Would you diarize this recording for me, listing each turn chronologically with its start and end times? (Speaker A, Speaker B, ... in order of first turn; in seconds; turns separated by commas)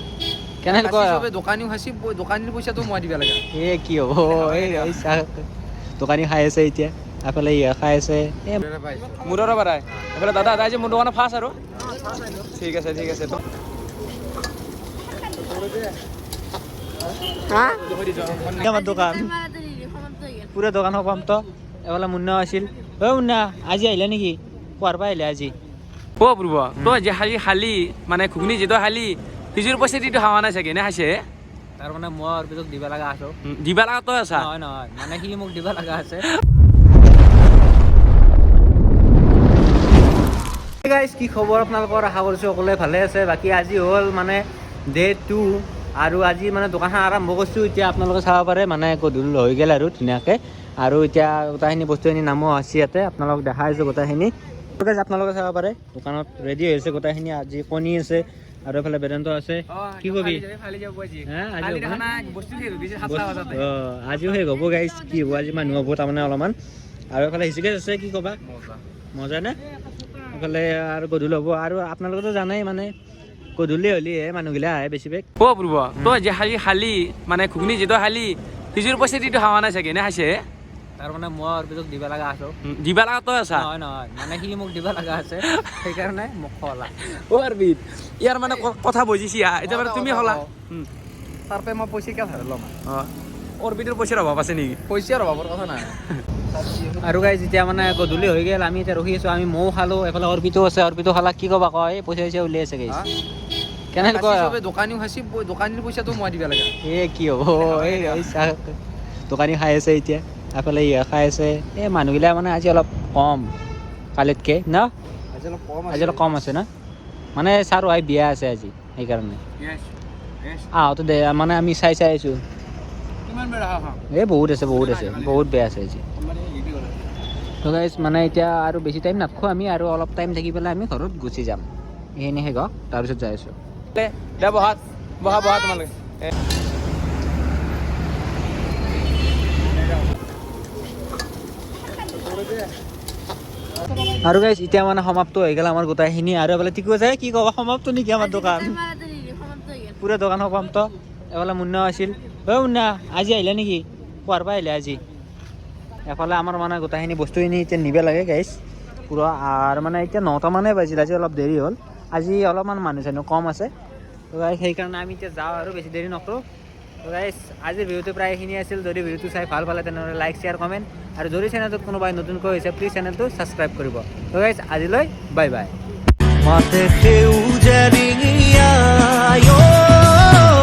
Speaker A: 0.6-1.2, Speaker B: 0.7-3.4, Speaker A: 3.5-8.6, Speaker B: 4.3-5.0, Speaker B: 8.6-9.2, Speaker C: 9.2-11.6, Speaker C: 12.4-13.4, Speaker C: 17.8-18.5, Speaker A: 18.4-19.5, Speaker A: 20.5-25.5, Speaker C: 26.2-31.2, Speaker A: 31.8-33.4, Speaker C: 33.4-34.5, Speaker A: 34.3-36.3, Speaker A: 40.8-60.4, Speaker C: 59.7-63.7, Speaker A: 61.2-62.0, Speaker A: 63.0-66.5, Speaker A: 67.1-68.5, Speaker A: 69.1-69.6, Speaker A: 70.2-72.9, Speaker A: 73.6-75.2, Speaker C: 75.4-80.4, Speaker A: 81.0-82.5, Speaker C: 82.6-83.7, Speaker A: 83.5-87.0, Speaker C: 85.4-85.9, Speaker C: 86.9-90.9, Speaker B: 89.6-90.5, Speaker B: 91.5-92.8, Speaker C: 92.8-94.8, Speaker B: 94.8-96.0, Speaker B: 96.6-97.1, Speaker A: 96.9-103.0, Speaker A: 103.9-104.5, Speaker B: 104.0-106.7, Speaker A: 106.8-108.8, Speaker B: 107.5-108.3, Speaker A: 109.3-113.5, Speaker A: 114.2-114.9, Speaker B: 115.3-116.4, Speaker A: 115.9-116.7, Speaker A: 117.3-119.4, Speaker A: 120.7-122.4, Speaker B: 123.3-124.0, Speaker A: 124.1-126.0, Speaker A: 127.6-133.6, Speaker C: 133.9-136.3, Speaker A: 144.2-149.0, Speaker A: 149.9-155.0, Speaker A: 156.1-163.7, Speaker A: 164.3-166.4, Speaker A: 167.0-175.7, Speaker A: 176.4-180.3